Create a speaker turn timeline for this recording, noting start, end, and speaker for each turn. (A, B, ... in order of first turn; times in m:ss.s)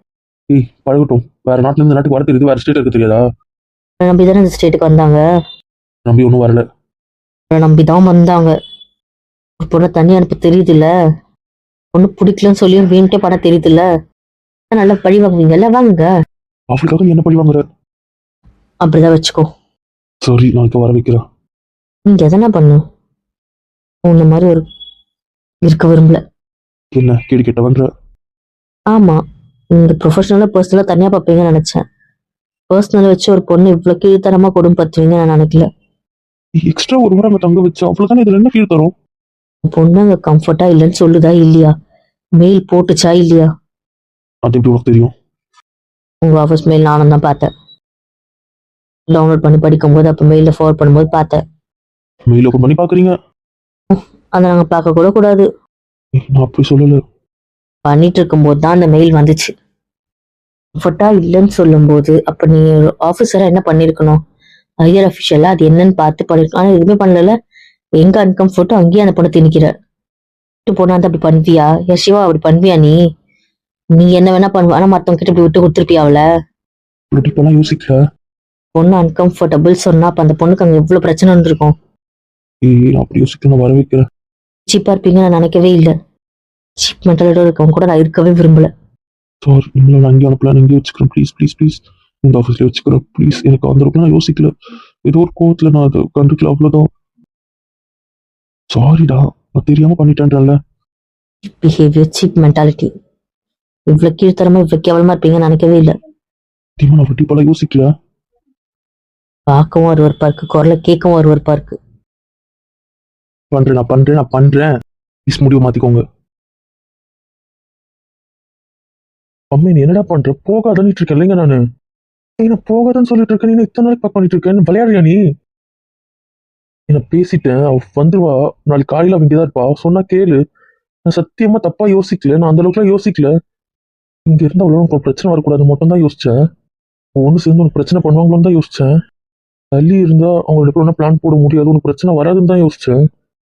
0:00.5-0:03.2 A
0:04.0-0:05.2 B
0:06.0-0:06.6 A
0:07.5-0:08.5 B
0:09.6-0:10.9 B
0:11.9-0:13.8 B
0:14.7-0:16.1 B
0:16.7-0:17.6 A
0:18.8-0:19.5 B
0:20.2-0:21.2 A
0:22.1-0:22.8 B
0:24.1-0:24.6 B
0:25.6-0:26.2 B
0:26.9-0:27.9 A
0:28.9-0:29.2 B
0:29.8-0:31.8 B
0:32.7-0:35.7 B
0:36.6-0:38.9 A
0:39.7-0:41.7 B
0:42.4-0:43.5 B
0:44.4-0:45.1 A
0:46.2-0:47.5 B
0:49.1-0:51.4 B
0:52.3-0:53.1 A
0:53.9-0:55.5 B
0:56.2-0:57.0 A
0:57.8-0:59.5 B
1:00.8-1:04.2 B
1:04.8-1:07.3 B
1:08.0-1:09.7 B
1:10.7-1:13.0 B
1:14.0-1:16.2 B
1:17.1-1:18.0 A
1:18.8-1:21.7 B
1:22.6-1:24.0 A
1:24.7-1:25.9 B
1:26.8-1:28.7 B
1:29.4-1:34.5 A
1:35.0-1:36.8 A
1:38.7-1:40.6 A
1:41.5-1:42.9 B
1:43.9-1:45.9 B
1:46.8-1:47.9 A
1:49.5-1:51.8 B
1:53.5-1:54.7 A
1:55.3-1:56.0 A
1:59.5-2:01.6 A
2:02.4-2:05.2 A
2:06.9-2:10.4 A
2:11.1-2:13.3 A
2:14.3-2:16.3 A
2:17.2-2:18.9 A
2:19.7-2:22.9 A